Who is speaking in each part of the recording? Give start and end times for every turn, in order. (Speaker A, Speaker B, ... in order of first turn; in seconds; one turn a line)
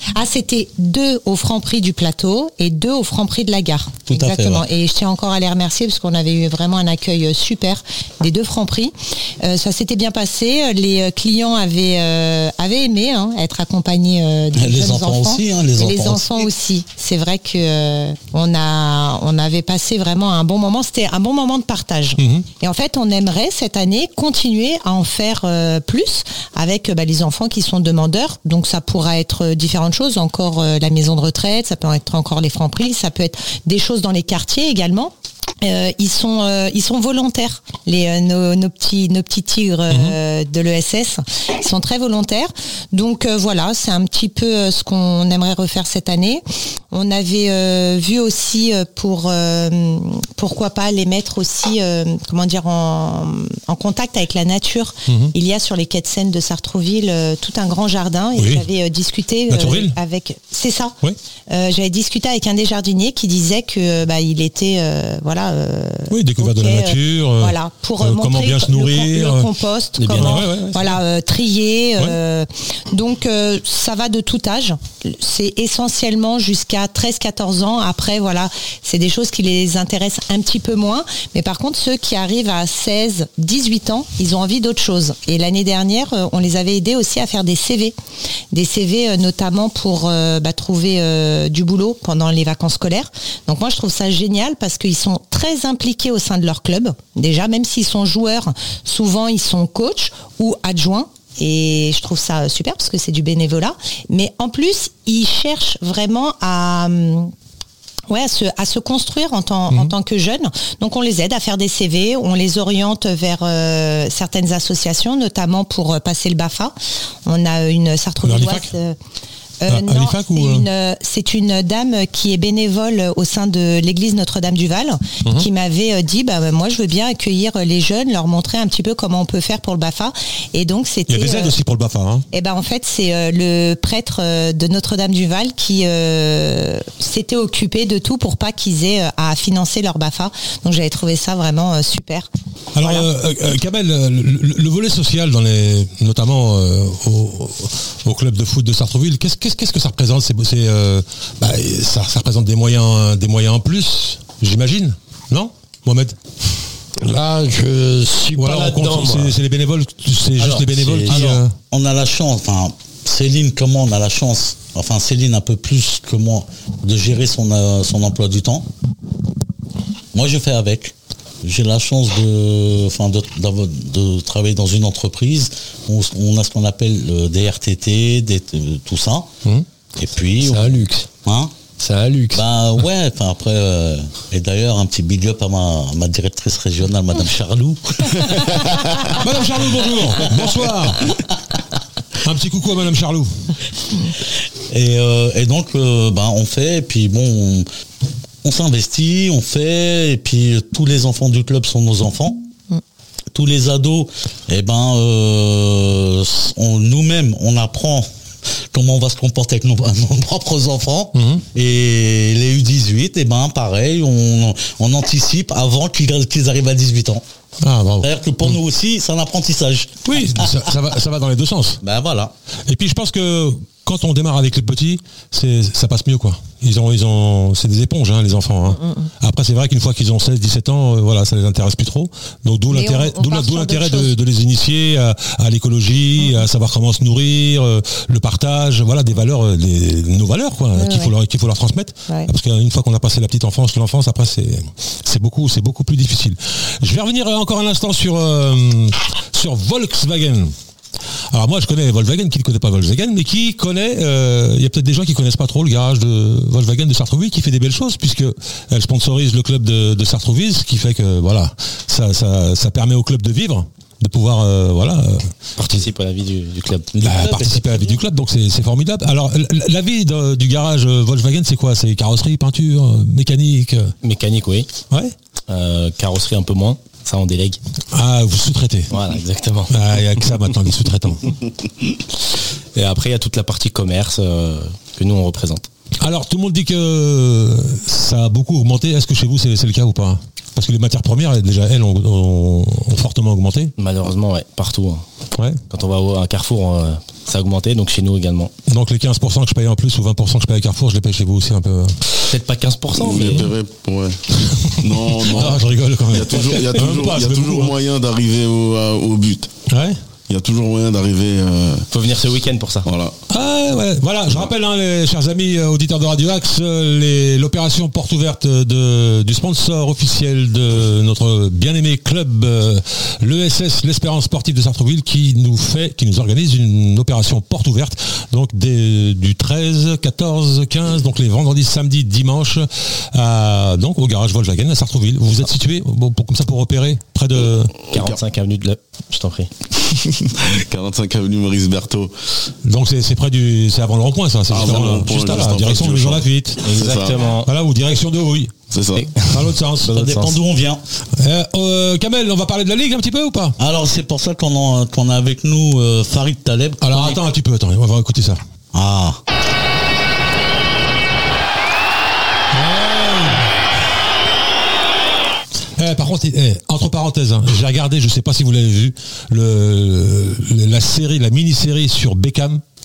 Speaker A: 0.1-61.0
Speaker B: 4.1-4.7
Speaker B: 14.5-16.5
Speaker C: 22.2-22.4
Speaker C: 39.9-40.1
Speaker C: 55.1-55.3
Speaker C: 58.4-58.7
Speaker C: 59.5-60.0
Speaker A: 61.5-87.9
Speaker C: 66.1-69.5
Speaker D: 70.0-70.7
Speaker C: 70.1-71.0
Speaker A: 88.5-107.3
Speaker A: 108.1-116.7
Speaker A: 117.2-119.0
Speaker C: 118.2-118.7
Speaker A: 119.6-131.6
Speaker C: 119.7-120.7
Speaker C: 131.1-132.2
Speaker A: 132.3-142.3
Speaker C: 142.7-156.2
Speaker A: 142.8-143.1
Speaker E: 157.0-159.3
Speaker C: 158.3-161.5
Speaker B: 160.4-168.7
Speaker B: 170.1-179.3
Speaker B: 179.9-181.5
Speaker E: 180.4-181.1
Speaker E: 181.8-182.4
Speaker B: 182.3-188.7
Speaker C: 189.1-191.2
Speaker C: 192.2-193.3
Speaker B: 194.7-197.7
Speaker B: 198.4-202.4
Speaker B: 203.3-208.1
Speaker B: 208.7-217.2
Speaker C: 211.1-211.4
Speaker C: 217.6-218.6
Speaker B: 218.0-220.4
Speaker C: 220.0-221.8
Speaker B: 221.8-222.3
Speaker C: 222.7-250.5
Speaker A: 228.7-229.1
Speaker A: 232.7-234.1
Speaker A: 236.2-236.5
Speaker A: 240.7-241.1
Speaker C: 251.3-265.3
Speaker D: 265.6-266.9
Speaker B: 266.9-268.0
Speaker C: 267.0-273.9
Speaker D: 274.0-274.7
Speaker D: 275.5-277.6
Speaker C: 277.9-278.9
Speaker D: 278.9-279.8
Speaker C: 279.7-281.3
Speaker D: 282.7-285.6
Speaker C: 286.0-293.7
Speaker D: 293.8-295.0
Speaker C: 295.3-295.6
Speaker D: 295.7-298.5
Speaker C: 298.7-301.9
Speaker D: 302.2-303.5
Speaker F: 302.9-309.5
Speaker C: 304.4-307.7
Speaker C: 309.7-310.0
Speaker F: 310.3-311.9
Speaker D: 311.9-312.9
Speaker F: 312.8-313.1
Speaker C: 313.3-337.7
Speaker F: 337.8-338.2
Speaker D: 337.9-339.5
Speaker F: 339.9-342.1
Speaker C: 342.6-346.7
Speaker F: 344.5-347.3
Speaker D: 346.6-347.5
Speaker C: 347.3-348.6
Speaker F: 348.7-349.1
Speaker D: 348.9-350.3
Speaker C: 349.3-350.2
Speaker B: 349.8-350.8
Speaker C: 351.2-353.6
Speaker B: 353.6-357.2
Speaker C: 356.8-358.4
Speaker B: 358.7-359.2
Speaker C: 362.5-363.5
Speaker C: 365.8-372.6